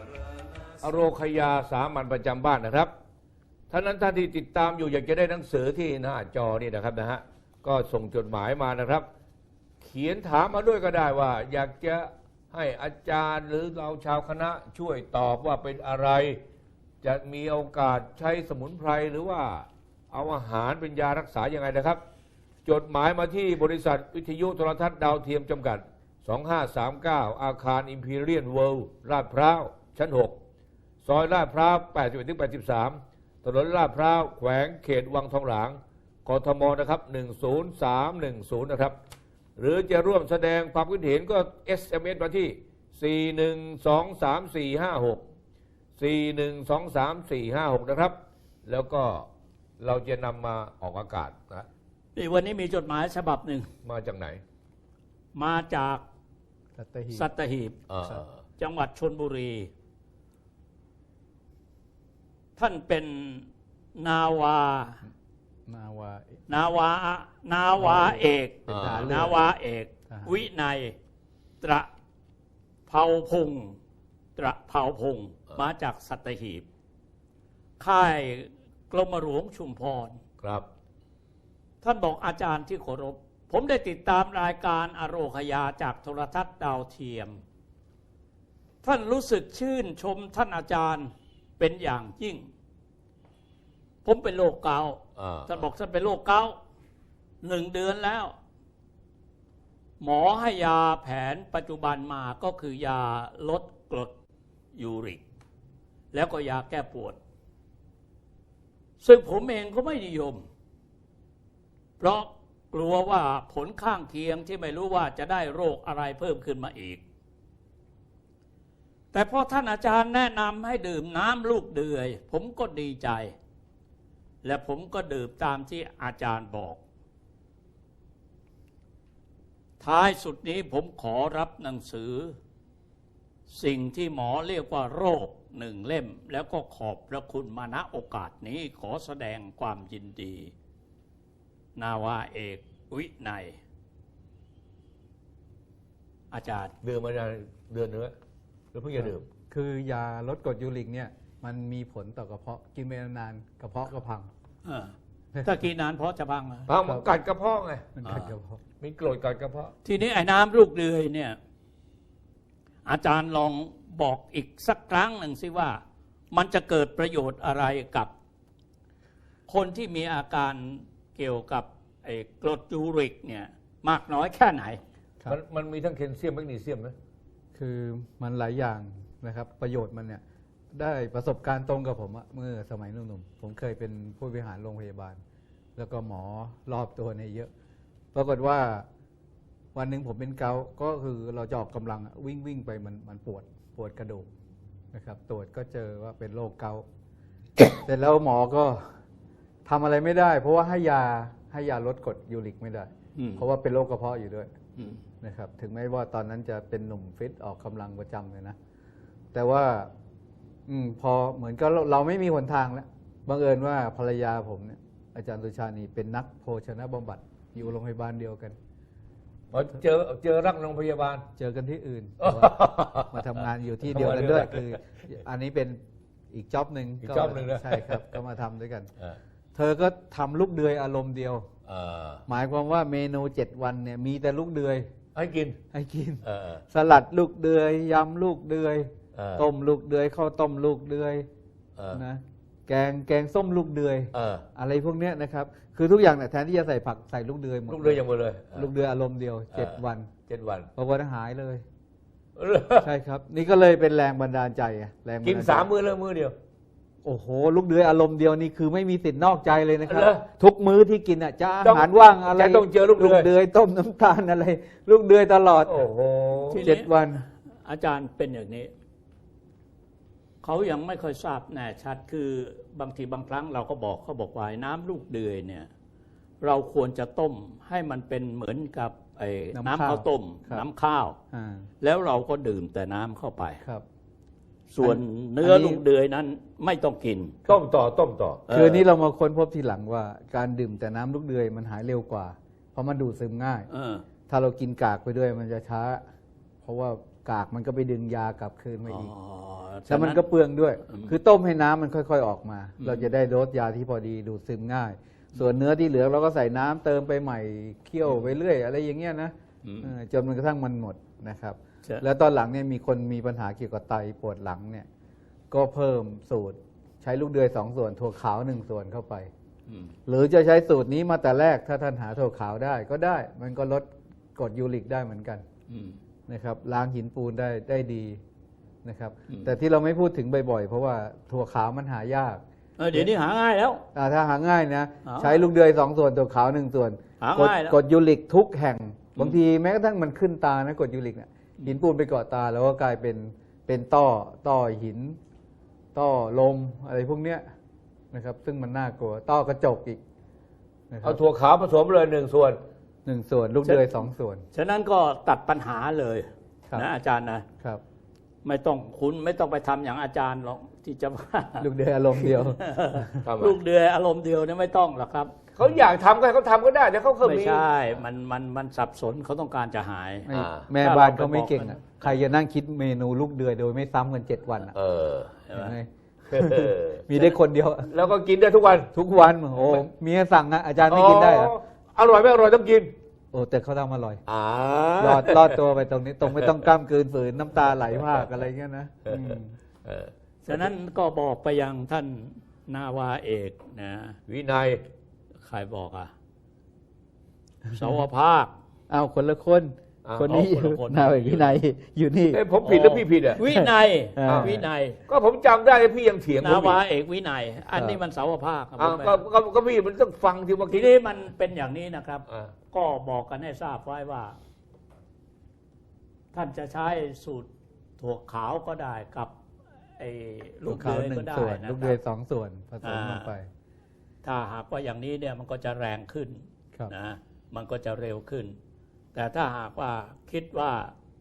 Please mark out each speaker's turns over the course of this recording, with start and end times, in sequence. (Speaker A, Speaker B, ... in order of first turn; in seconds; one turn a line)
Speaker A: 0.8-2.9
Speaker A: 3.7-9.1
Speaker A: 9.8-16.4
Speaker A: 17.0-22.0
Speaker A: 22.7-30.4
Speaker A: 31.1-39.0
Speaker A: 39.6-45.2
Speaker A: 46.0-49.3
Speaker A: 49.8-51.7
Speaker B: 52.2-53.7
Speaker A: 53.9-54.4
Speaker B: 55.3-56.0
Speaker C: 56.8-57.3
Speaker B: 57.1-59.7
Speaker A: 57.9-58.3
Speaker B: 62.6-65.0
Speaker C: 65.7-66.4
Speaker B: 66.5-71.0
Speaker C: 67.8-69.5
Speaker A: 68.7-69.2
Speaker C: 70.1-70.3
Speaker B: 71.6-71.9
Speaker B: 72.9-73.8
Speaker B: 74.4-76.7
Speaker B: 77.8-80.2
Speaker A: 80.4-80.7
Speaker B: 81.8-87.4
Speaker B: 88.8-92.5
Speaker B: 94.0-96.6
Speaker A: 95.2-95.7
Speaker B: 97.4-98.3
Speaker B: 100.0-104.1
Speaker B: 104.8-105.2
Speaker B: 106.1-107.2
Speaker B: 109.0-110.4
Speaker B: 112.0-117.0
Speaker B: 119.1-123.3
Speaker B: 124.4-126.8
Speaker B: 129.8-132.4
Speaker B: 133.5-140.5
Speaker B: 141.8-143.6
Speaker B: 146.3-146.7
Speaker A: 146.8-148.1
Speaker A: 148.7-149.3
Speaker C: 149.0-154.3
Speaker B: 154.7-156.7
Speaker A: 156.7-158.0
Speaker C: 158.0-158.6
Speaker B: 158.1-158.3
Speaker A: 158.8-159.7
Speaker B: 159.8-161.4
Speaker B: 162.9-165.8
Speaker B: 166.3-168.1
Speaker B: 169.5-174.8
Speaker A: 175.3-176.9
Speaker C: 177.6-180.2
Speaker C: 180.7-185.2
Speaker C: 185.8-187.5
Speaker C: 188.1-188.9
Speaker C: 189.7-194.3
Speaker C: 194.9-196.8
Speaker C: 197.8-198.8
Speaker C: 199.7-204.5
Speaker B: 203.2-203.4
Speaker C: 205.2-208.6
Speaker C: 209.3-209.9
Speaker C: 210.7-218.6
Speaker A: 219.5-221.3
Speaker C: 221.4-225.8
Speaker A: 222.2-223.3
Speaker A: 223.9-224.8
Speaker C: 226.3-228.9
Speaker A: 227.0-228.2
Speaker C: 229.6-231.5
Speaker A: 231.7-232.2
Speaker C: 232.3-234.9
Speaker A: 235.2-235.6
Speaker C: 235.7-241.3
Speaker A: 236.2-236.6
Speaker A: 239.1-239.5
Speaker A: 241.8-242.0
Speaker C: 241.9-248.0
Speaker A: 244.1-244.4
Speaker A: 247.7-248.7
Speaker C: 248.5-250.1
Speaker A: 249.5-250.7
Speaker C: 250.8-251.6
Speaker A: 252.4-252.9
Speaker C: 252.8-255.7
Speaker A: 255.2-256.4
Speaker C: 257.0-265.8
Speaker A: 259.9-260.2
Speaker A: 261.6-263.3
Speaker A: 265.6-266.6
Speaker B: 266.5-266.9
Speaker C: 266.6-267.3
Speaker B: 267.6-268.7
Speaker B: 270.4-275.7
Speaker B: 276.4-281.2
Speaker C: 279.5-280.7
Speaker C: 281.3-281.7
Speaker B: 281.8-283.6
Speaker B: 284.7-287.4
Speaker C: 284.8-285.8
Speaker A: 287.5-288.5
Speaker B: 288.5-288.8
Speaker C: 288.5-293.7
Speaker B: 293.7-294.0
Speaker C: 294.3-296.0
Speaker C: 296.6-299.1
Speaker B: 298.9-300.2
Speaker C: 299.9-314.9
Speaker B: 300.9-301.2
Speaker B: 302.8-303.1
Speaker B: 309.6-309.9
Speaker C: 315.5-319.3
Speaker B: 319.7-319.9
Speaker C: 320.1-325.4
Speaker B: 325.7-326.0
Speaker C: 326.3-328.2
Speaker C: 328.8-332.4
Speaker B: 332.8-333.8
Speaker C: 333.9-345.2
Speaker B: 335.1-335.4
Speaker B: 337.2-337.8
Speaker C: 345.9-347.4
Speaker C: 348.1-350.0
Speaker C: 350.9-351.2
Speaker A: 351.0-352.6
Speaker C: 353.1-354.4
Speaker B: 353.6-353.9
Speaker B: 354.5-357.4
Speaker B: 358.4-365.3
Speaker C: 361.6-363.2
Speaker A: 363.2-363.6
Speaker A: 365.6-367.7
Speaker B: 367.2-372.2
Speaker C: 370.3-374.8
Speaker A: 370.3-370.7
Speaker A: 374.7-375.4
Speaker B: 375.5-375.8
Speaker C: 375.5-377.9
Speaker A: 376.3-377.2
Speaker A: 377.9-378.9
Speaker C: 378.9-381.6
Speaker A: 380.9-382.9
Speaker C: 383.3-384.2
Speaker A: 384.3-385.6
Speaker C: 385.0-389.6
Speaker A: 386.4-386.7
Speaker A: 388.0-388.3
Speaker A: 389.1-390.6
Speaker B: 390.4-394.2
Speaker A: 394.3-394.8
Speaker B: 395.4-396.1
Speaker B: 397.7-398.5
Speaker C: 398.9-402.4
Speaker A: 400.1-400.3
Speaker B: 400.2-401.5
Speaker A: 402.3-403.4
Speaker B: 402.6-405.0
Speaker C: 403.4-404.6
Speaker A: 404.2-406.8
Speaker B: 406.4-409.2
Speaker C: 407.7-408.0
Speaker A: 408.8-410.9
Speaker B: 410.7-414.4
Speaker B: 416.3-419.3
Speaker B: 420.0-422.0
Speaker C: 420.7-423.5
Speaker B: 422.8-423.3
Speaker B: 424.2-428.6
Speaker B: 429.1-430.9